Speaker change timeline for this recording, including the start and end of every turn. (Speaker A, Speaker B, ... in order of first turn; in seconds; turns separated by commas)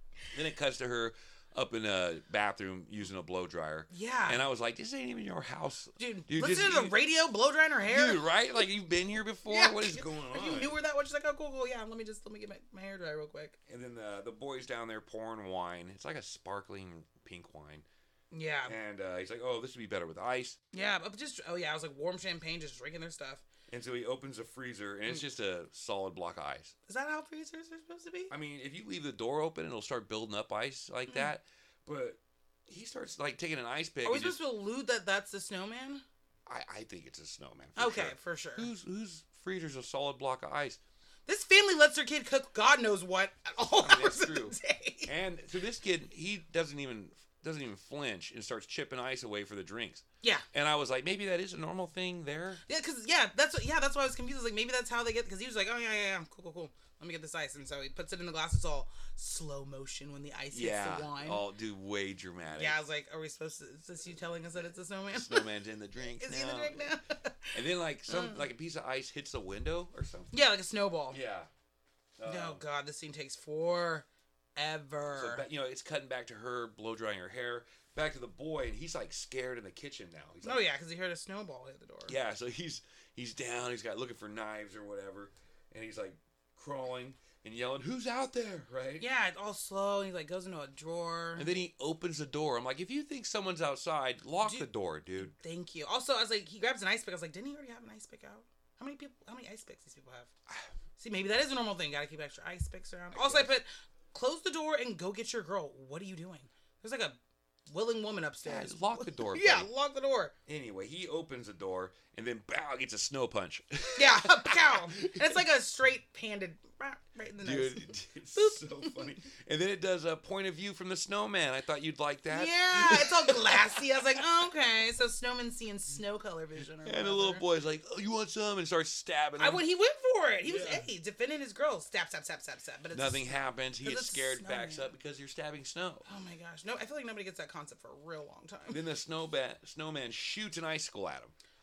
Speaker A: 0.3-7.0, Speaker B: 3.9-4.4, Speaker B: 6.0-8.6, Speaker A: 7.8-10.8, Speaker B: 9.5-13.6, Speaker A: 13.7-17.9, Speaker B: 18.3-18.8, Speaker A: 18.6-20.6, Speaker B: 20.7-23.4, Speaker A: 23.7-26.8, Speaker B: 26.9-28.3, Speaker A: 28.3-34.4, Speaker B: 34.0-36.0, Speaker A: 36.5-40.8, Speaker B: 37.8-38.7, Speaker B: 41.3-45.1, Speaker A: 43.8-52.6, Speaker B: 52.7-61.4, Speaker A: 60.5-62.8, Speaker B: 62.5-68.5, Speaker A: 65.1-66.9, Speaker A: 67.5-70.3, Speaker B: 70.3-71.2, Speaker A: 71.1-71.5, Speaker A: 72.2-72.6, Speaker B: 72.2-75.5, Speaker A: 75.1-80.6, Speaker B: 80.4-82.2, Speaker A: 82.1-89.1, Speaker B: 89.0-91.5, Speaker A: 91.4-95.4, Speaker B: 94.4-100.3, Speaker B: 101.0-110.3, Speaker A: 103.1-103.5, Speaker A: 108.4-109.7, Speaker A: 110.5-115.4, Speaker B: 114.0-119.1, Speaker A: 117.4-124.4, Speaker B: 122.3-127.4, Speaker A: 126.8-129.6, Speaker B: 129.4-134.9, Speaker A: 130.4-130.9, Speaker A: 132.9-136.1, Speaker B: 136.1-138.8, Speaker A: 138.7-141.3